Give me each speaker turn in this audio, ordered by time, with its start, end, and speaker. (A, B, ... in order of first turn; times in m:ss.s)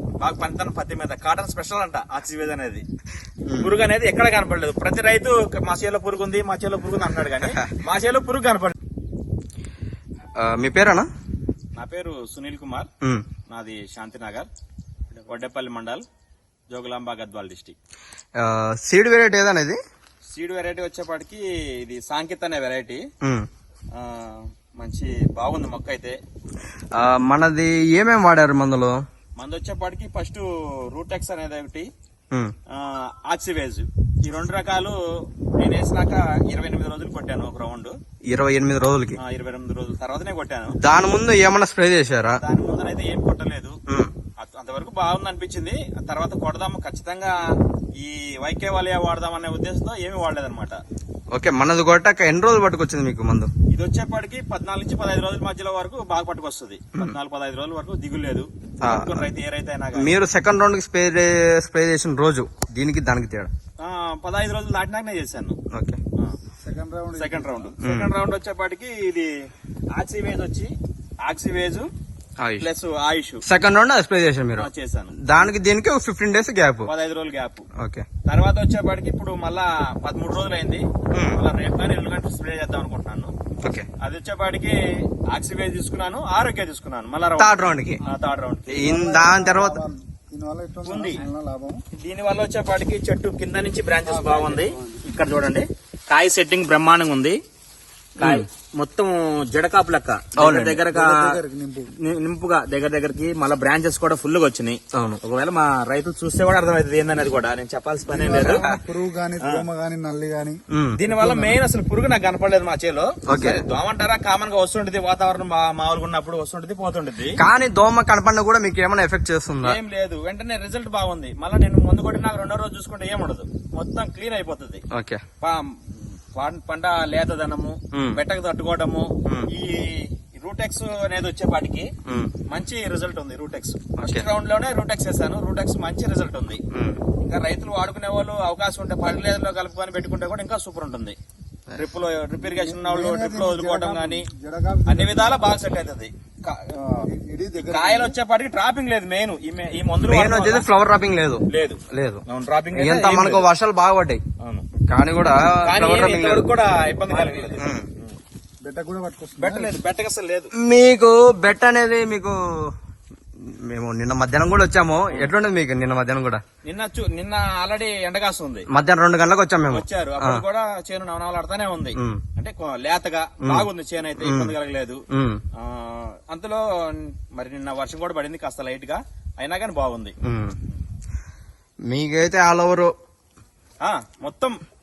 0:00.2-0:02.8 A
0:03.5-0:03.7 B
0:03.6-0:08.8 A
0:10.4-0:11.1 B
0:11.8-0:12.9 A
0:13.5-0:14.5 A
0:15.3-0:16.0 A
0:16.7-0:17.8 A
0:18.4-0:19.8 B
0:20.3-0:23.1 A
0:23.2-0:23.5 B
0:23.9-0:26.2 A
0:27.0-0:29.0 B
0:29.4-0:31.9 A
0:32.7-0:38.0 A
0:38.3-0:39.2 B
0:39.2-0:40.8 A
0:40.8-0:42.4 B
0:42.4-0:43.8 A
0:44.4-0:47.4 A
0:48.0-0:50.8 A
0:51.3-0:53.5 B
0:53.7-1:00.1 A
0:58.8-0:59.3 B
1:00.0-1:03.5 B
1:03.8-1:05.6 A
1:05.7-1:06.0 B
1:06.6-1:07.7 C
1:07.2-1:09.3 A
1:07.8-1:08.1 B
1:09.9-1:11.9 A
1:12.4-1:12.7 B
1:12.6-1:13.4 A
1:13.5-1:16.9 B
1:14.6-1:15.5 A
1:16.9-1:17.7 A
1:17.8-1:18.1 B
1:18.2-1:23.3 A
1:21.1-1:21.4 B
1:23.6-1:23.9 B
1:24.0-1:29.0 A
1:27.4-1:28.0 B
1:28.7-1:29.8 B
1:28.8-1:31.8 C
1:30.8-1:31.2 A
1:31.9-1:37.4 A
1:34.1-1:35.0 C
1:38.2-1:41.3 A
1:38.2-1:38.5 B
1:40.4-1:40.8 B
1:40.9-1:41.9 C
1:41.9-1:48.6 A
1:44.9-1:45.2 B
1:48.1-1:50.6 C
1:48.4-1:48.8 B
1:50.7-1:51.5 B
1:51.0-1:57.4 A
1:53.3-1:53.6 B
1:57.4-1:59.8 B
1:59.6-2:04.8 A
2:04.9-2:05.2 B
2:05.4-2:11.9 A
2:07.9-2:08.2 B
2:12.1-2:12.3 B
2:12.5-2:16.6 A
2:14.0-2:14.3 B
2:16.7-2:17.0 B
2:17.2-2:21.2 A
2:21.8-2:24.3 A
2:22.4-2:25.4 C
2:24.9-2:26.8 A
2:26.8-2:28.1 C
2:27.6-2:30.7 A
2:30.0-2:34.2 B
2:31.5-2:33.5 A
2:34.4-2:34.7 A
2:34.9-2:36.5 B
2:35.7-2:38.2 A
2:37.1-2:37.5 C
2:37.6-2:37.9 B
2:38.6-2:39.7 C
2:39.4-2:40.5 A
2:40.6-2:42.7 B
2:43.4-2:46.4 B
2:46.6-2:48.7 A
2:48.7-2:50.4 B
2:49.7-2:55.0 A
2:52.0-2:52.2 B
2:53.4-2:53.7 B
2:54.2-2:54.6 B
2:55.1-2:55.4 B
2:55.6-3:00.2 A
3:00.2-3:00.6 B
3:01.9-3:02.9 B
3:03.8-3:04.6 A